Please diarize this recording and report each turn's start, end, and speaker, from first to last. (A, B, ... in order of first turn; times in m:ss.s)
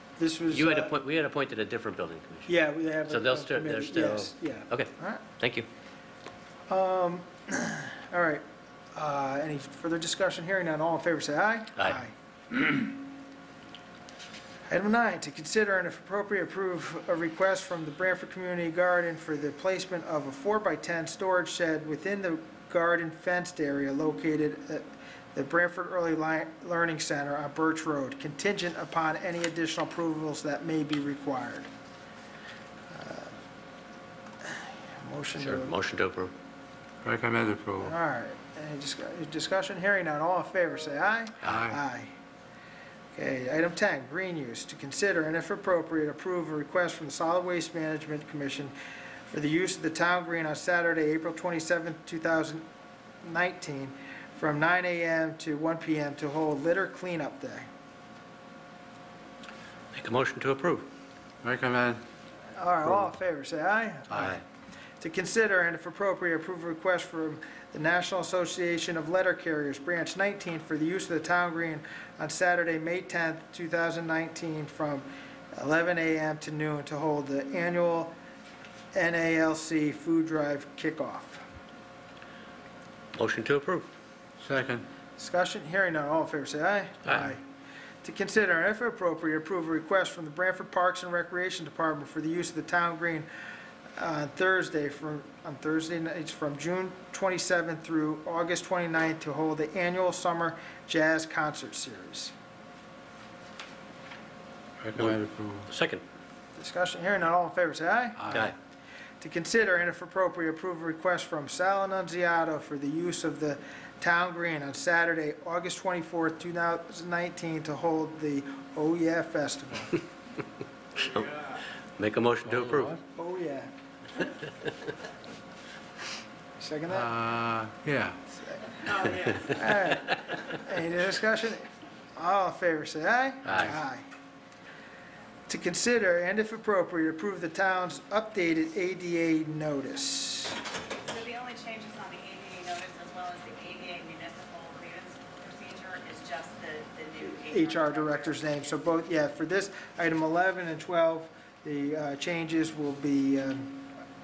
0:00.2-0:00.9 A
0:00.5-0:02.5 B
0:02.5-0:05.2 A
0:03.1-0:05.7 B
0:06.7-0:08.4 A
0:08.9-0:12.9 A
0:14.7-0:31.7 A
0:32.9-0:33.3 A
0:34.4-0:35.7 A
0:35.4-0:36.3 B
0:37.0-0:37.9 C
0:37.8-0:42.1 A
0:41.4-0:41.8 C
0:43.1-0:48.7 A
0:49.3-0:52.6 A
0:53.2-0:57.7 A
0:59.9-1:00.9 B
1:01.4-1:02.0 C
1:02.6-1:04.4 A
1:04.1-1:04.4 B
1:05.0-1:18.1 A
1:18.9-1:21.4 A
1:23.2-1:23.9 B
1:24.4-1:24.8 C
1:25.2-1:27.4 A
1:28.0-1:33.3 A
1:34.0-1:42.3 A
1:44.8-1:45.7 C
1:45.7-1:46.0 B
1:46.6-1:48.5 A
1:49.2-2:00.0 A
2:01.0-2:03.0 B
2:02.4-2:03.0 C
2:03.1-2:03.7 A
2:06.6-2:07.1 A
2:06.9-2:08.2 C
2:08.4-2:11.6 A
2:12.2-2:14.0 A
2:13.4-2:13.7 B
2:15.5-2:20.6 A
2:21.0-2:28.5 D
2:27.2-2:33.9 A